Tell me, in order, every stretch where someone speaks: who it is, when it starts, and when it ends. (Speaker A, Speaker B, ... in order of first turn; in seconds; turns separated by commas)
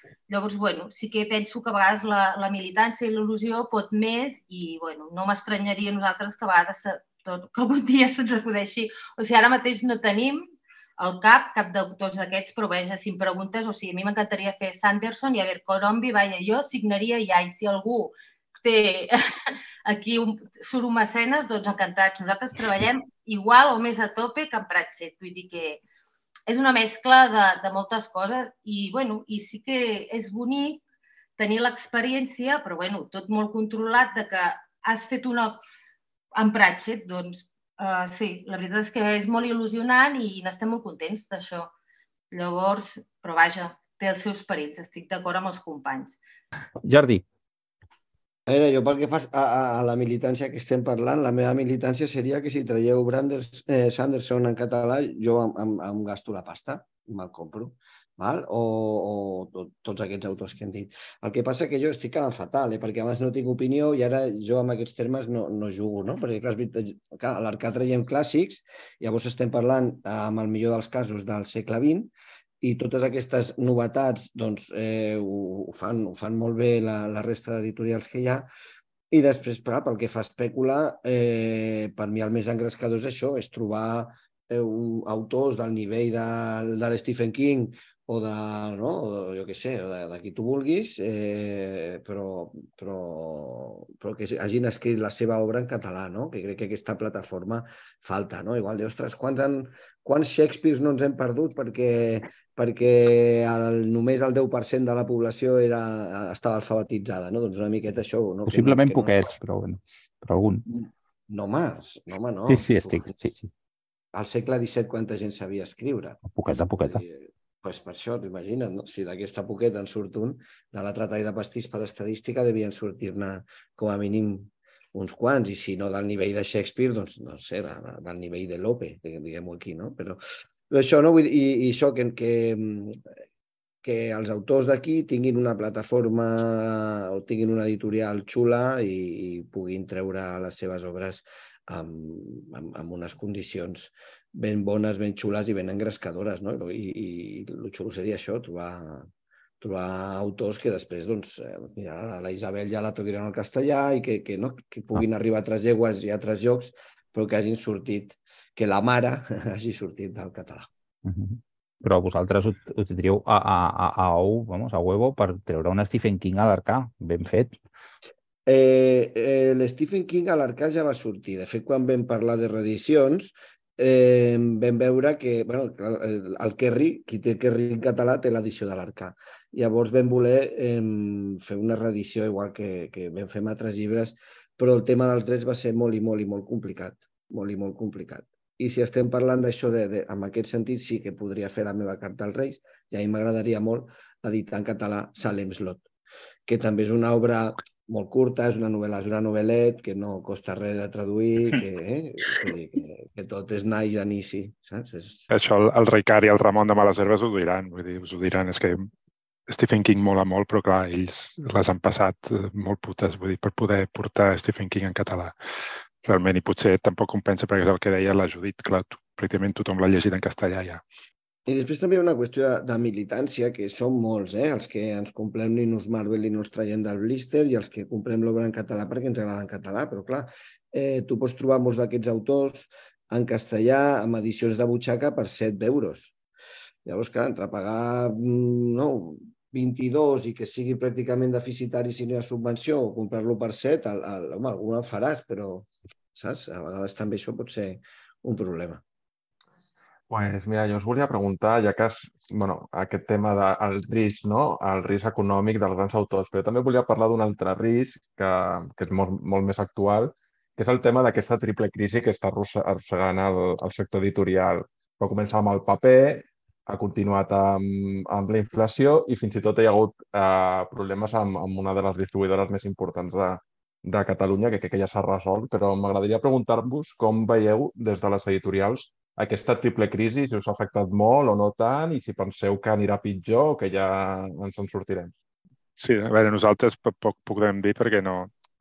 Speaker A: 0.3-25.8, Speaker A: 26.5-30.8, Speaker A: 31.4-35.6, Speaker A: 36.3-41.7, Speaker A: 42.3-46.2, Speaker B: 46.8-47.2, Speaker C: 48.5-78.5, Speaker C: 79.1-109.3, Speaker B: 108.5-110.7, Speaker C: 110.7-113.1, Speaker B: 112.5-113.5, Speaker C: 114.1-116.2, Speaker B: 116.3-117.0, Speaker C: 116.8-133.0, Speaker C: 133.8-149.1, Speaker C: 149.6-160.7, Speaker B: 161.0-167.6, Speaker C: 168.4-195.8, Speaker C: 196.4-205.2, Speaker D: 205.3-208.9, Speaker D: 209.5-215.3, Speaker D: 216.0-220.8, Speaker C: 221.4-236.1, Speaker C: 236.8-248.8, Speaker E: 250.1-285.1, Speaker D: 285.8-288.3